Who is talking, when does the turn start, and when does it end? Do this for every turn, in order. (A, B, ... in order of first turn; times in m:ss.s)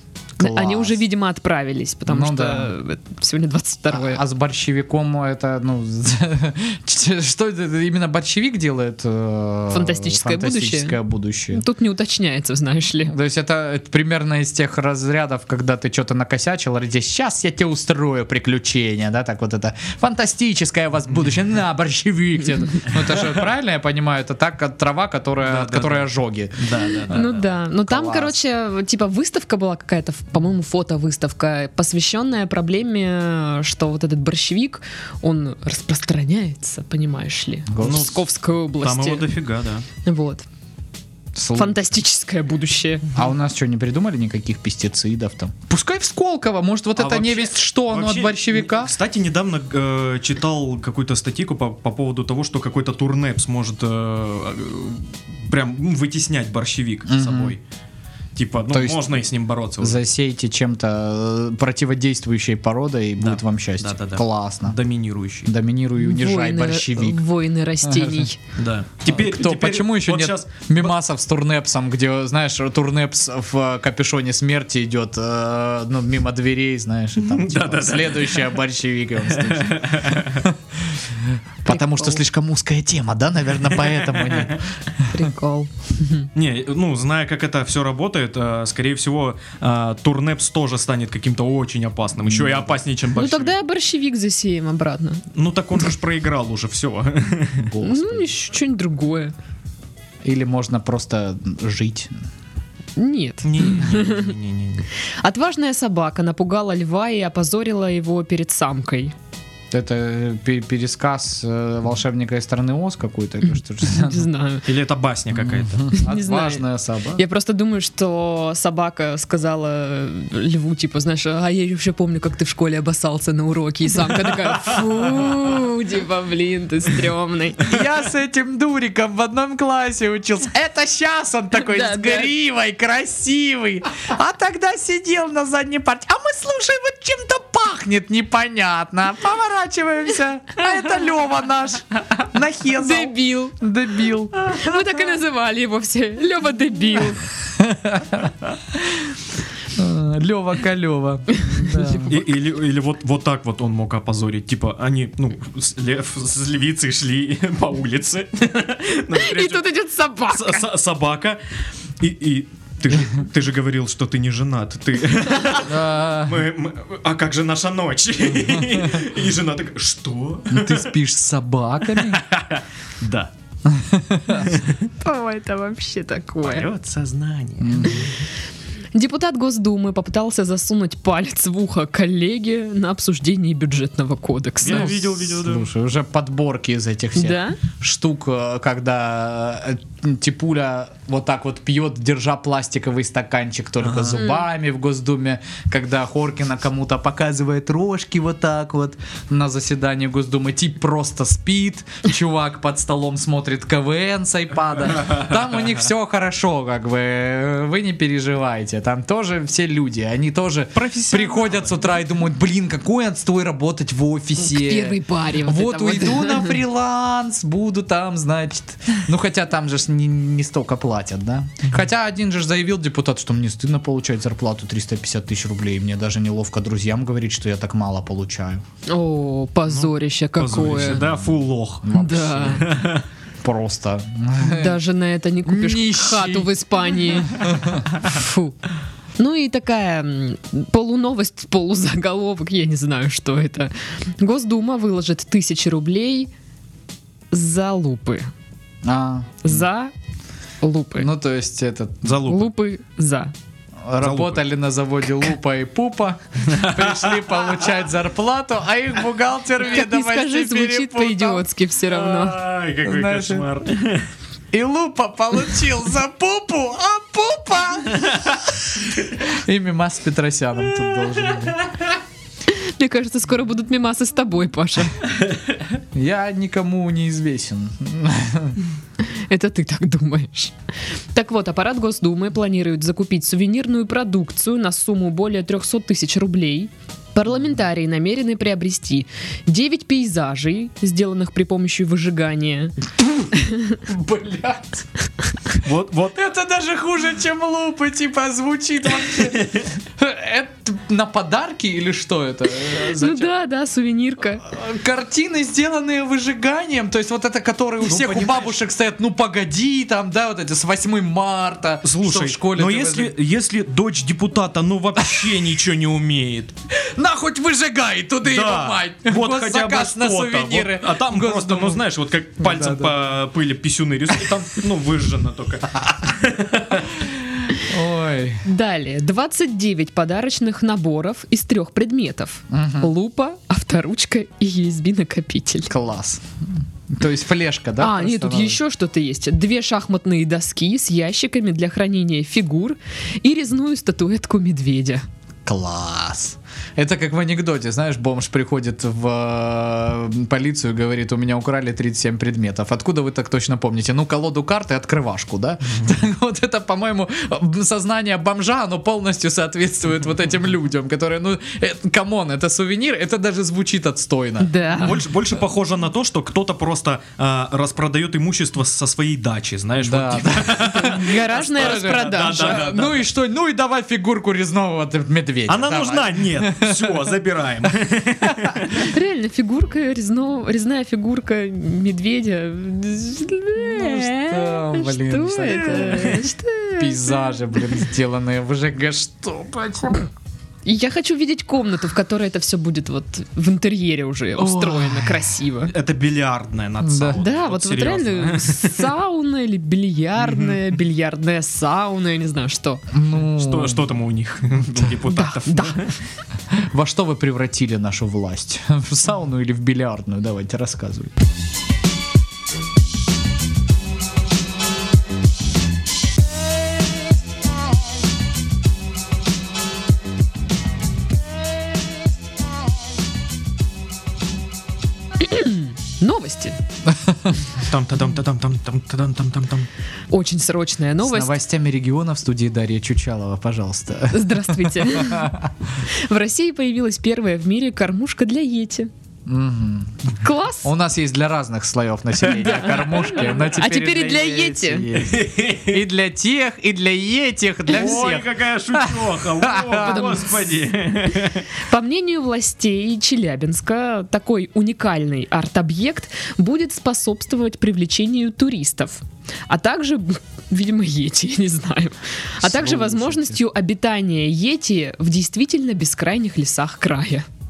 0:00.4-0:04.2 A
0:00.4-0:01.0 B
0:02.1-0:02.7 B
0:03.9-0:11.6 B
0:09.7-0:11.0 A
0:11.5-0:13.1 A
0:13.0-0:27.3 B
0:25.4-0:27.5 C
0:27.1-0:39.3 A
0:27.9-0:28.4 B
0:37.7-0:38.1 B
0:37.8-0:39.8 C
0:40.0-0:40.4 A
0:41.3-0:41.8 B
0:41.5-0:43.1 A
0:43.1-0:48.9 B
0:47.0-0:57.6 C
0:57.1-0:57.6 B
0:58.4-1:00.0 C
0:58.7-0:59.1 B
0:59.8-1:04.8 B
1:03.2-1:05.5 C
1:05.4-1:07.2 B
1:06.0-1:08.4 A
1:07.8-1:08.3 B
1:08.6-1:10.7 C
1:09.0-1:24.6 B
1:17.2-1:18.5 C
1:19.3-1:20.5 C
1:21.7-1:22.2 A
1:23.8-1:24.6 C
1:25.0-1:26.3 A
1:26.3-1:33.5 C
1:32.2-1:32.8 B
1:33.1-1:35.2 A
1:35.3-1:37.7 C
1:37.6-1:38.3 B
1:37.8-1:39.3 A
1:40.2-1:42.1 B
1:43.0-1:44.3 A
1:43.4-1:44.9 C
1:45.2-1:49.1 A
1:49.7-1:54.3 B
1:53.8-1:54.6 A
1:54.6-1:55.9 C
1:55.3-1:57.2 B
1:55.9-2:07.8 A
2:07.6-2:25.0 B
2:11.6-2:12.3 A
2:22.8-2:23.6 A
2:24.4-2:27.3 A
2:27.6-2:29.1 B
2:29.7-2:32.2 B
2:31.3-2:32.1 A
2:32.0-2:39.7 C
2:39.1-2:40.6 A
2:40.3-2:41.4 C
2:42.0-2:50.9 C
2:45.6-2:46.5 B
2:48.6-2:48.8 B
2:50.5-2:52.2 B
2:51.9-2:53.3 C
2:53.6-2:54.5 B
2:54.4-2:54.8 C
2:55.0-2:56.7 A
2:56.4-2:58.1 C
2:57.6-2:58.1 B
2:58.9-3:05.0 A
3:04.6-3:05.7 C
3:04.6-3:48.6 B
3:07.1-3:07.6 A
3:13.8-3:14.2 C
3:14.1-3:14.4 A
3:30.7-3:31.8 C
3:34.4-3:36.6 A
3:48.9-3:51.0 A
3:49.7-3:53.0 C
3:50.8-3:52.8 B
3:51.9-3:52.7 A
3:53.4-3:54.8 B
3:54.4-3:58.6 A
3:55.4-3:56.5 B
3:57.1-3:57.8 B
3:59.2-4:06.3 A
4:07.3-4:08.3 A
4:08.8-4:09.6 B
4:09.4-4:09.9 A
4:10.6-4:11.1 A
4:11.0-4:12.2 B
4:12.0-4:12.5 C
4:12.2-4:13.3 A
4:13.8-4:21.4 B
4:14.0-4:14.4 C
4:16.4-4:17.5 C
4:19.6-4:22.4 A
4:21.9-4:24.1 C
4:22.8-4:23.5 B
4:24.5-4:31.6 B
4:31.0-4:31.6 C
4:32.5-4:35.0 A
4:35.9-4:38.6 B
4:39.0-4:40.5 A
4:41.1-4:52.8 A
4:53.0-4:54.8 B
4:53.3-4:53.8 A
4:55.6-4:56.2 C
4:56.1-5:03.3 B
4:59.3-4:59.7 C
5:02.8-5:04.4 A
5:04.4-5:13.1 B
5:07.8-5:08.5 C
5:11.8-5:16.5 C
5:15.0-5:15.4 B
5:16.7-5:21.8 B
5:18.2-5:26.9 C
5:22.4-5:23.0 B
5:27.0-5:28.4 B
5:28.4-5:35.7 A
5:32.5-5:32.9 B
5:35.7-5:36.2 B
5:36.9-5:38.6 B
5:37.8-5:45.0 A
5:45.4-6:04.6 B
6:04.4-6:05.0 A
6:04.8-6:13.0 C
6:09.8-6:17.2 B
6:10.6-6:12.9 A
6:15.5-6:18.9 C
6:18.2-6:18.6 B
6:18.7-6:27.3 A
6:23.6-6:30.1 B
6:30.6-6:35.7 A
6:34.4-6:35.3 B
6:35.6-6:38.9 C
6:36.8-6:37.2 B
6:37.2-6:42.8 A
6:40.2-6:40.6 C
6:42.9-6:43.9 B
6:43.1-6:45.9 C
6:45.1-6:45.9 A
6:46.5-6:51.1 B
7:05.2-7:06.6 A
7:06.9-7:07.4 B
7:07.6-7:09.7 C
7:10.1-7:11.4 A
7:11.0-7:15.5 B
7:14.1-7:18.9 A
7:19.2-7:20.1 B
7:20.2-7:20.7 A
7:20.6-7:30.1 B
7:22.3-7:24.9 A
7:22.4-7:23.4 C
7:24.9-7:25.8 C
7:27.7-7:31.5 C
7:27.7-7:28.1 A
7:29.8-7:30.3 A
7:31.5-7:47.2 A
7:42.4-7:43.4 B